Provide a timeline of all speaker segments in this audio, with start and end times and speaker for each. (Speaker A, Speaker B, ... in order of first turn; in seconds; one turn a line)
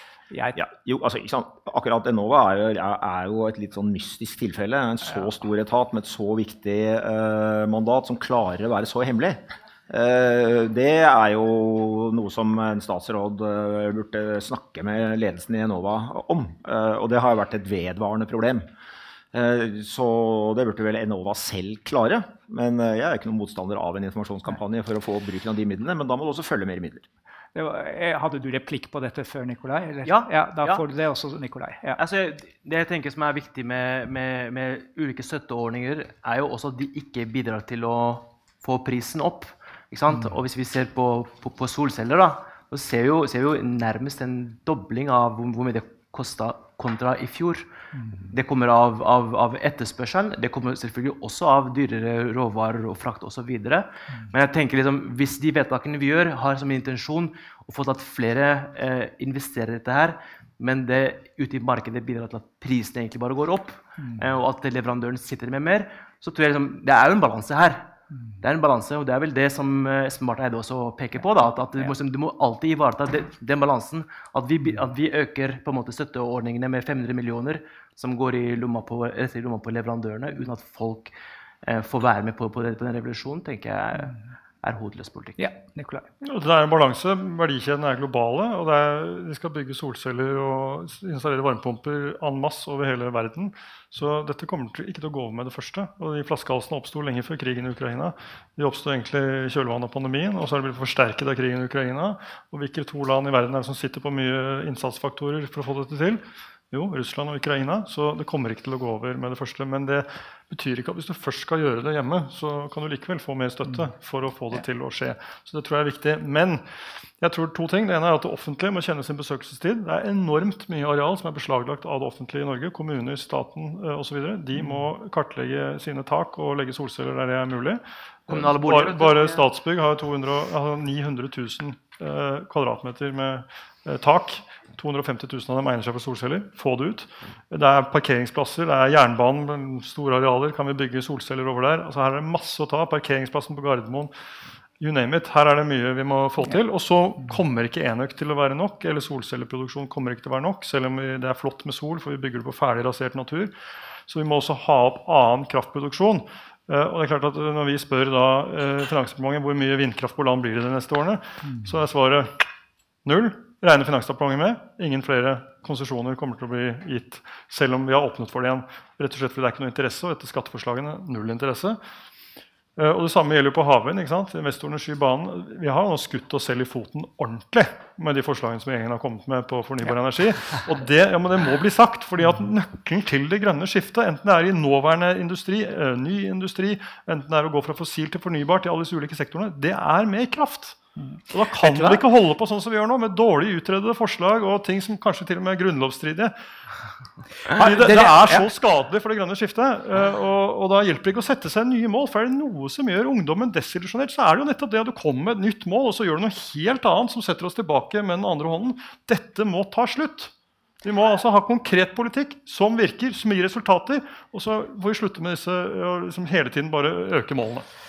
Speaker A: 0.3-0.6
Speaker B: 0.5-18.7
Speaker B: 19.3-27.1
Speaker A: 27.5-32.0
Speaker C: 30.0-30.8
Speaker C: 32.0-47.7
Speaker A: 48.0-48.3
Speaker C: 48.3-81.1
Speaker C: 81.6-85.5
Speaker A: 85.4-86.1
Speaker D: 86.2-116.6
Speaker D: 117.2-144.1
Speaker A: 124.6-124.8
Speaker C: 128.3-129.4
Speaker D: 144.8-153.5
Speaker D: 154.1-162.3
Speaker A: 161.4-161.7
Speaker D: 163.0-171.8
Speaker D: 172.8-196.3
Speaker A: 191.0-192.0
Speaker D: 197.5-210.3
Speaker A: 197.6-198.4
Speaker D: 210.8-217.7